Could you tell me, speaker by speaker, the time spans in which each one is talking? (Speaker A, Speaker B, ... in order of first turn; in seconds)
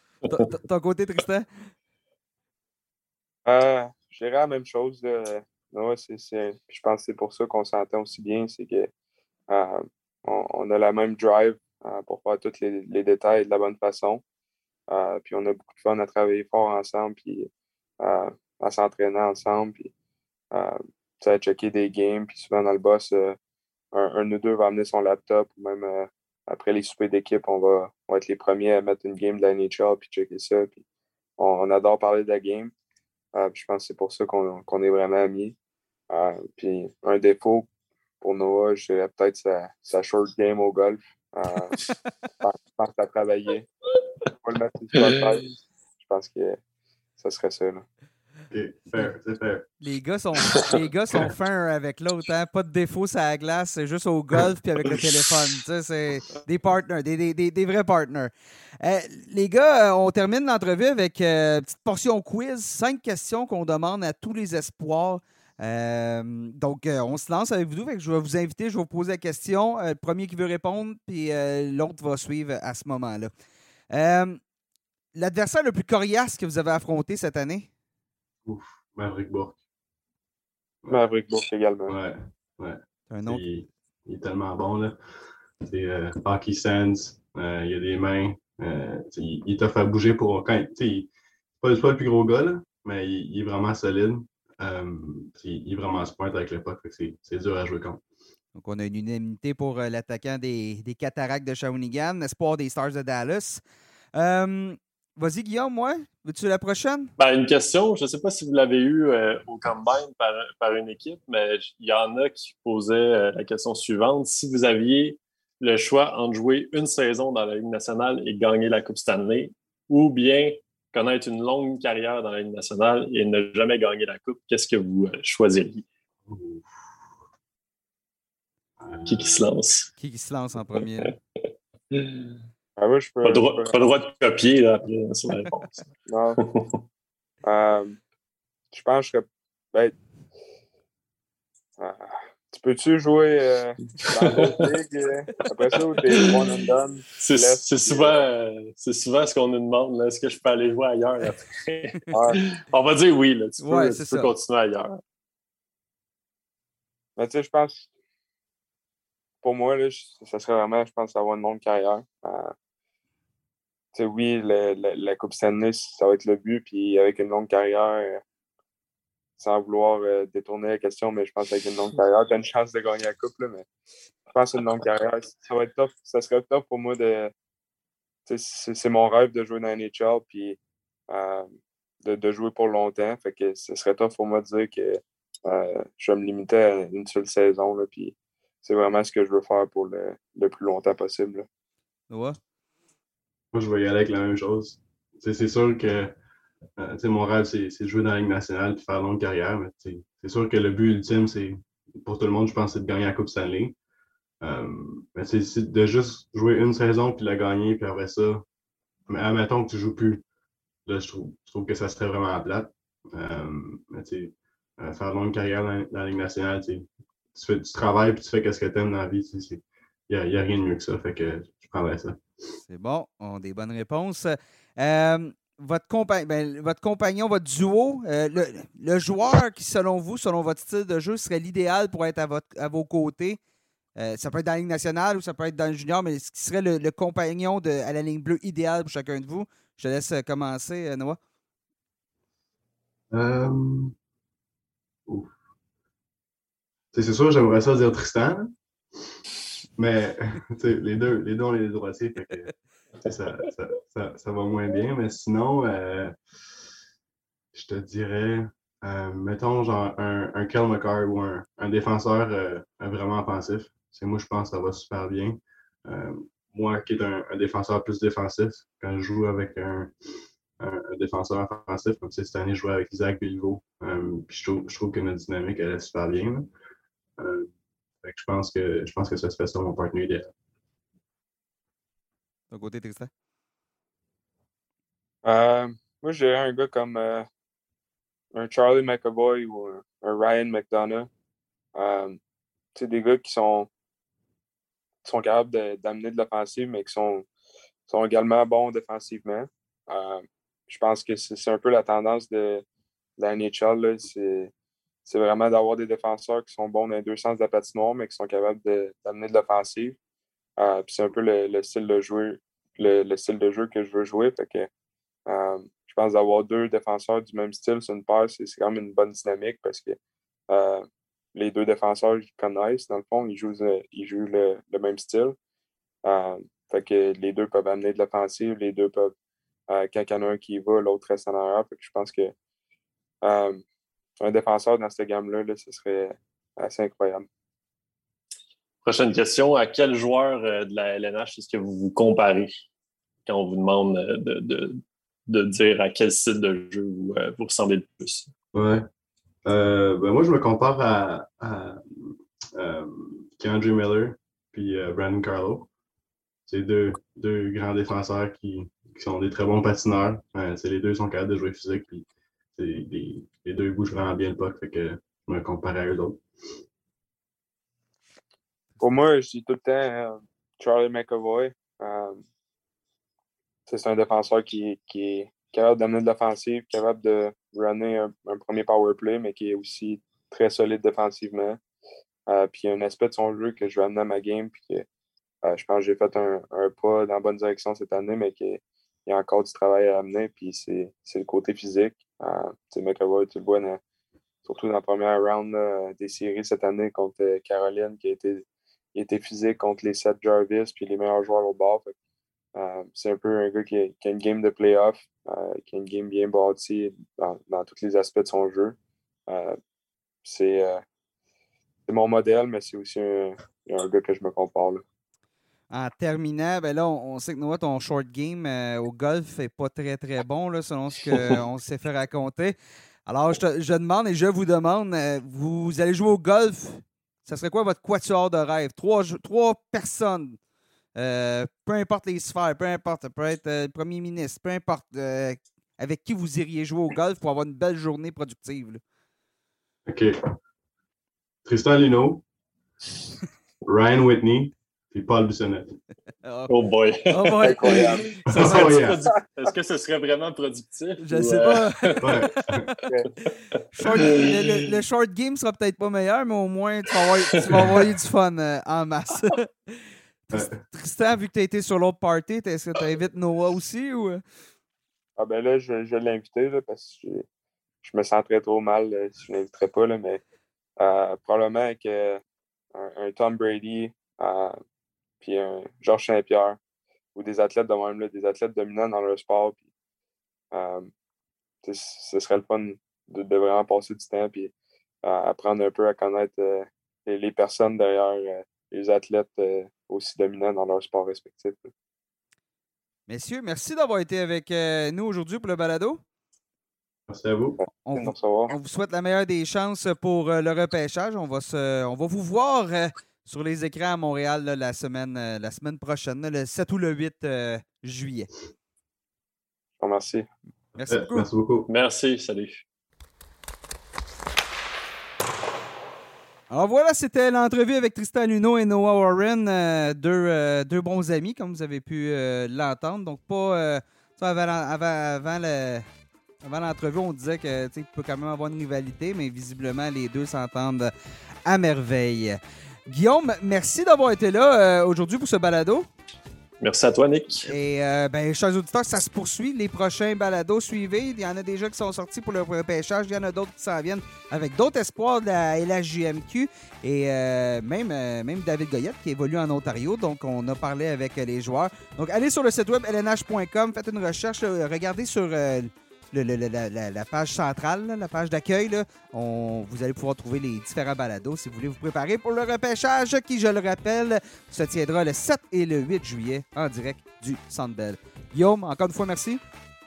Speaker A: 0.3-1.7, 49.8-73.3, 73.9-74.4, 75.2-77.7, 83.1-83.4, 98.5-103.6, 104.1-107.1, 130.0-131.2, 153.6-154.3, 192.1-192.4, 222.7-233.4, 234.0-241.2, 282.5-283.1, 415.7-422.6, 423.1-430.4, 431.0-438.8, 446.2-446.5, 447.1-448.9, 451.0-452.7, 453.7-464.2, 493.1-496.0, 497.8-508.3, 510.8-511.3, 516.5-525.9, 526.4-530.9, 531.5-535.9, 537.5-569.4
Speaker B: 3.5-8.9, 9.5-14.2, 14.9-17.5, 18.0-19.9, 20.5-23.4, 23.9-30.8, 31.4-32.7, 33.4-35.6, 36.1-37.7, 38.2-41.9, 42.4-43.7, 44.3-46.6, 47.2-47.9, 80.9-82.0, 132.8-133.8, 136.1-136.4, 137.4-138.0, 138.7-140.0, 141.8-148.2, 152.1-152.4, 157.2-157.9, 159.4-162.5, 163.9-168.2, 169.4-173.7, 174.3-177.3, 178.3-191.5, 285.2-287.3, 288.3-291.1, 291.8-292.2, 292.8-293.7, 295.1-297.3, 297.9-302.6, 303.2-304.5, 305.1-310.0, 310.6-314.7, 315.3-320.0, 320.5-325.4, 326.1-329.1, 329.7-332.3, 333.2-333.6, 334.2-337.3, 368.8-372.2, 373.7-381.6, 382.3-384.9, 385.4-393.8, 394.4-401.9, 402.6-408.8, 409.3-409.6, 410.2-410.8, 411.9-414.8, 447.4-448.6, 452.8-453.1, 465.2-467.2, 467.8-470.2, 470.8-472.2, 472.8-474.6, 475.2-476.6, 477.1-479.6, 480.5-480.9, 481.6-484.5, 485.0-491.7, 497.9-498.5, 509.8-510.3
Speaker C: 48.5-49.7, 78.5-79.6, 81.9-85.0, 85.6-98.0, 126.3-126.7, 128.8-129.5, 193.5-196.2, 196.8-203.8, 204.4-208.4, 209.1-210.2, 210.9-222.2, 243.1-243.9, 245.1-245.3, 246.9-248.5, 249.8-256.2, 257.5-269.9, 270.6-276.5, 277.2-277.5, 278.0-280.3, 348.5-348.9, 349.4-355.7, 356.5-366.2, 439.9-440.2, 441.4-442.2, 443.6-445.8, 448.2-449.0, 452.0-452.7, 460.3-460.6, 497.1-497.6, 510.9-511.7
Speaker D: 107.2-125.9, 129.1-129.9, 131.9-132.3, 133.2-135.8, 136.4-136.8, 144.2-144.6, 146.1-146.5, 147.2-155.0, 338.8-342.7, 343.3-348.3, 446.5-452.1, 453.9-454.3, 511.7-512.6, 536.6-537.5